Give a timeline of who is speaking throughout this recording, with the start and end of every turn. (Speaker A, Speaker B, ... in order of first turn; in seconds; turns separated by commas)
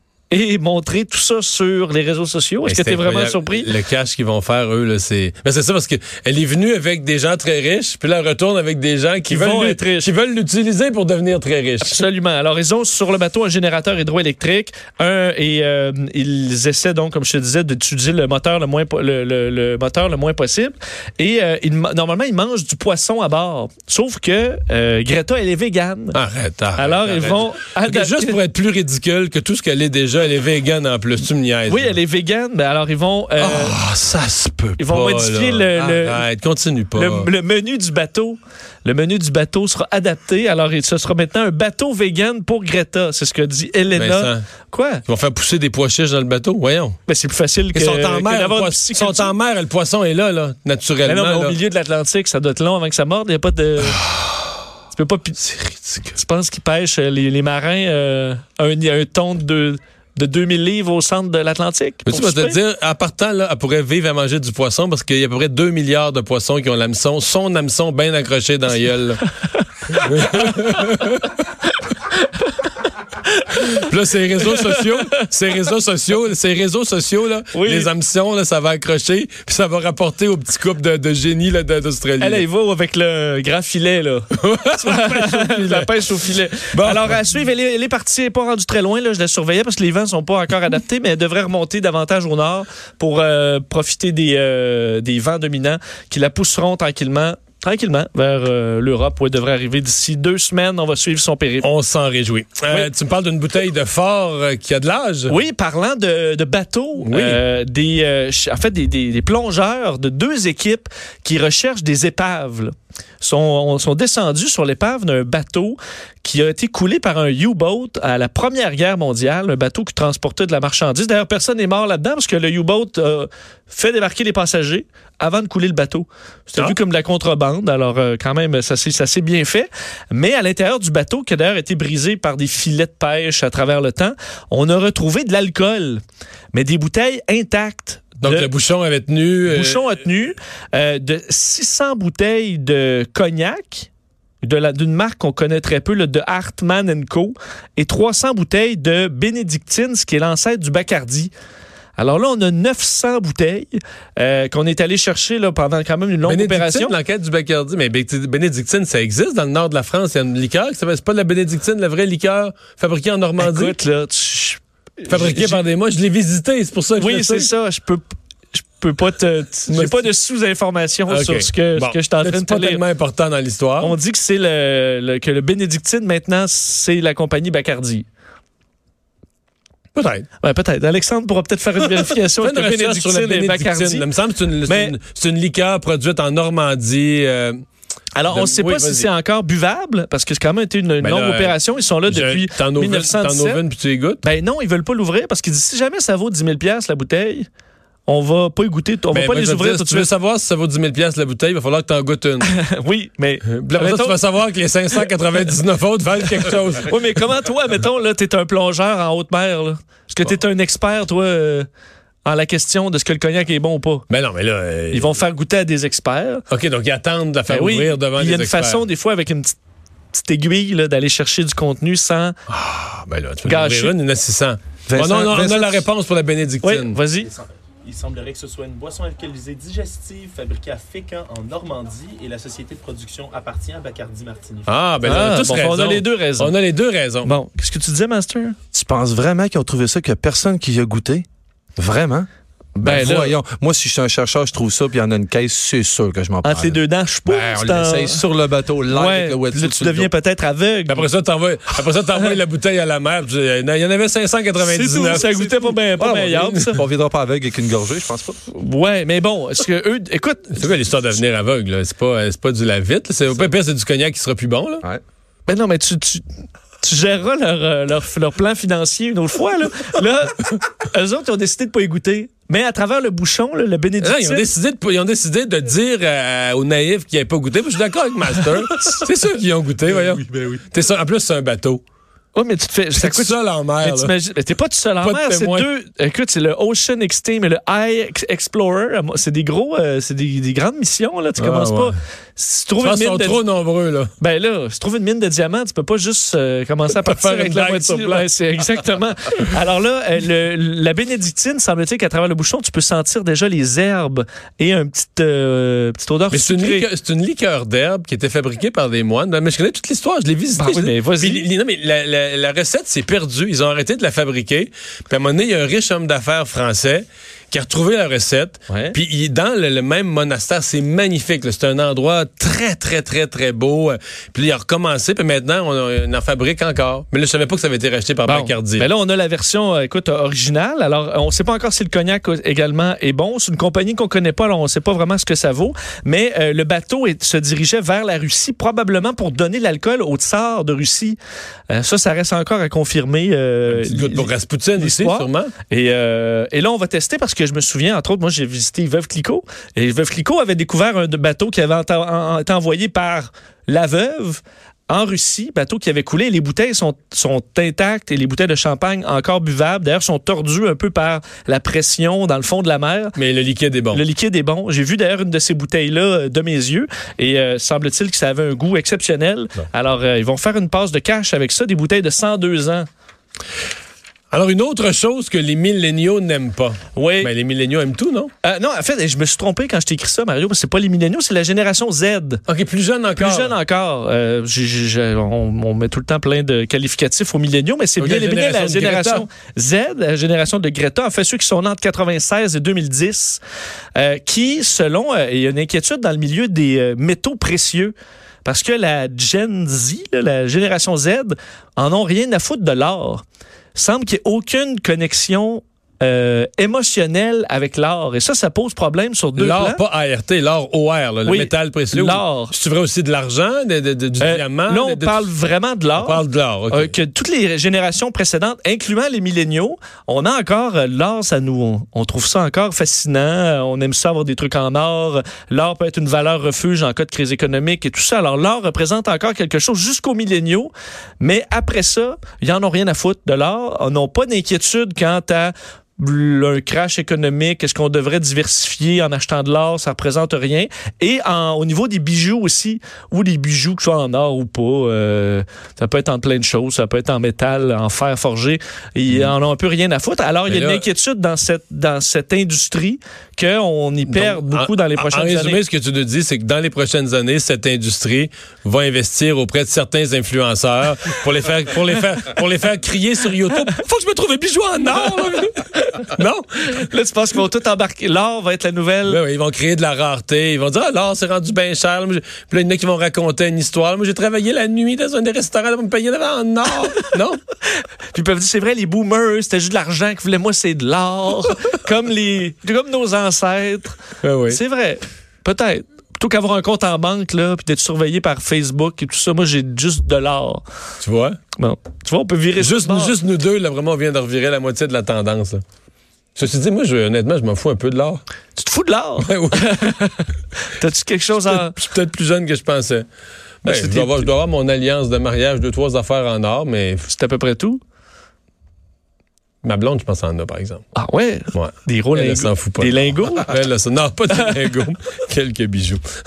Speaker A: 0.3-3.7, Speaker B: 2.7-12.0, Speaker A: 9.3-10.1, Speaker A: 11.8-26.2, Speaker B: 26.1-31.9, Speaker A: 26.8-28.4, Speaker A: 31.7-33.8, Speaker B: 33.4-37.3, Speaker A: 34.8-36.3, Speaker A: 37.0-45.0, Speaker B: 44.0-44.4, Speaker B: 45.1-47.0, Speaker A: 47.1-49.3, Speaker B: 47.8-51.5, Speaker A: 51.0-54.0, Speaker B: 54.0-54.5, Speaker A: 54.9-62.6, Speaker B: 62.1-69.2, Speaker B: 69.9-71.3, Speaker A: 69.9-70.8, Speaker A: 73.5-73.8, Speaker B: 73.7-82.5, Speaker A: 74.5-75.0, Speaker A: 77.5-77.9, Speaker A: 82.2-101.7, Speaker B: 84.4-85.9, Speaker B: 86.7-87.2, Speaker B: 101.6-105.3, Speaker A: 105.3-136.0, Speaker B: 107.0-107.4, Speaker A: 136.5-138.5, Speaker B: 138.2-139.9, Speaker A: 139.5-143.9, Speaker A: 144.4-151.3, Speaker A: 152.0-157.0, Speaker B: 156.3-163.8, Speaker A: 163.4-165.7, Speaker B: 165.1-167.5, Speaker A: 167.0-172.8, Speaker B: 169.7-170.1, Speaker B: 171.1-173.9, Speaker A: 173.8-178.1, Speaker B: 179.9-180.3, Speaker A: 180.4-184.1, Speaker B: 182.4-187.6, Speaker A: 184.7-185.0, Speaker A: 188.2-193.6, Speaker B: 188.3-189.1, Speaker B: 191.0-191.6, Speaker B: 192.1-194.2, Speaker A: 194.2-197.5, Speaker A: 198.1-200.1, Speaker B: 199.1-202.5, Speaker A: 202.4-204.2, Speaker B: 203.5-207.0, Speaker A: 206.9-211.7, Speaker A: 212.2-214.1, Speaker B: 214.1-215.1, Speaker A: 214.9-216.5, Speaker B: 216.5-218.8, Speaker A: 217.5-219.6, Speaker A: 220.1-222.3, Speaker B: 222.5-227.0, Speaker A: 223.4-223.9, Speaker C: 224.9-225.8, Speaker A: 226.6-227.3, Speaker D: 227.3-234.7, Speaker B: 234.7-237.3, Speaker A: 235.0-236.5, Speaker A: 237.2-238.6, Speaker C: 238.7-241.3, Speaker C: 241.8-242.3, Speaker A: 242.8-243.3, Speaker C: 242.8-250.1, Speaker A: 246.4-248.2, Speaker A: 248.9-251.1, Speaker B: 250.9-255.3, Speaker A: 254.6-256.8, Speaker C: 254.9-255.8, Speaker B: 256.0-256.8, Speaker C: 256.7-258.4, Speaker A: 258.5-260.6, Speaker B: 260.6-264.9, Speaker A: 265.5-266.2, Speaker A: 266.8-274.5, Speaker B: 274.0-281.8, Speaker A: 282.3-293.4, Speaker B: 282.9-284.1, Speaker B: 285.0-285.7, Speaker B: 291.4-291.9, Speaker B: 292.8-294.1, Speaker A: 294.2-306.9, Speaker B: 297.1-298.3, Speaker B: 306.3-328.9, Speaker A: 310.6-311.5, Speaker A: 318.7-319.0, Speaker A: 328.3-341.2, Speaker A: 341.7-363.2, Speaker B: 343.7-345.5, Speaker B: 363.2-364.0, Speaker A: 363.9-372.9, Speaker B: 374.3-378.3, Speaker A: 376.9-377.3, Speaker A: 378.4-382.4, Speaker B: 382.5-383.5, Speaker A: 383.1-393.4, Speaker B: 388.0-389.2, Speaker A: 394.0-403.2, Speaker A: 403.8-409.8, Speaker B: 409.4-415.3, Speaker A: 411.3-412.5, Speaker A: 414.2-455.6, Speaker B: 416.0-416.9, Speaker B: 450.5-450.8, Speaker B: 454.1-465.6, Speaker A: 464.8-466.0, Speaker B: 466.1-466.9, Speaker A: 466.7-469.2, Speaker B: 469.1-477.4, Speaker A: 478.1-490.6, Speaker B: 484.2-484.6, Speaker B: 491.0-491.4, Speaker A: 491.6-493.1, Speaker B: 492.6-495.6, Speaker B: 496.4-498.2, Speaker A: 498.6-501.8, Speaker B: 499.2-500.0, Speaker B: 501.4-503.1, Speaker B: 503.6-507.1, Speaker A: 503.6-504.3, Speaker A: 507.1-507.8, Speaker B: 509.6-510.9, Speaker A: 510.9-513.5, Speaker B: 511.5-516.0